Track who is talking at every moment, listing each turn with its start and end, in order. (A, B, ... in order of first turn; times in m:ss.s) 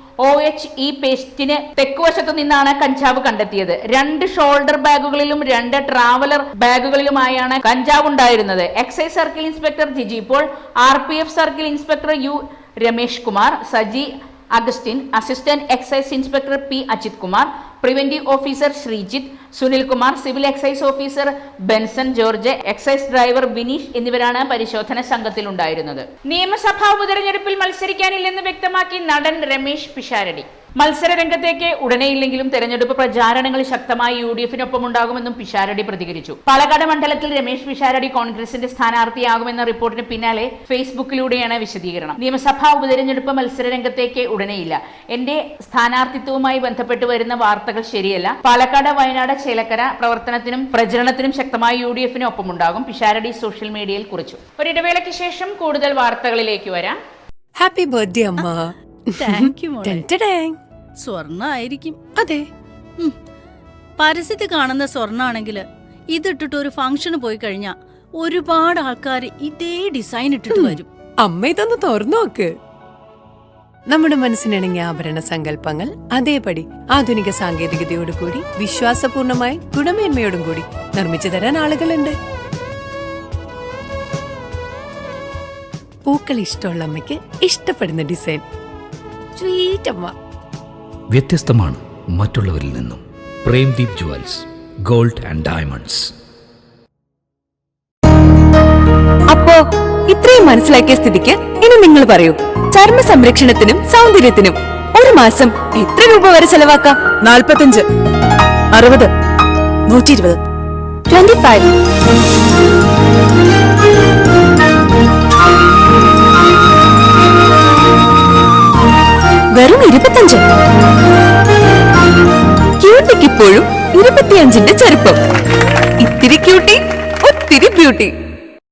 0:00.2-0:57.0 A
0:57.6-1:00.6 B
0:59.2-1:00.0 C
1:01.0-1:02.0 C
1:02.2-1:02.4 B
1:04.0-1:10.9 C
1:10.5-1:12.5 B
1:13.9-1:22.1 B
1:26.1-1:28.4 B
1:29.4-1:30.1 B
1:31.1-1:36.1 D
1:39.3-1:47.8 E
1:48.7-1:49.1 E
1:49.9-1:50.4 E
1:51.1-1:51.7 E
1:59.5-2:00.4 E
2:02.8-2:05.2 E
2:06.0-2:08.1 E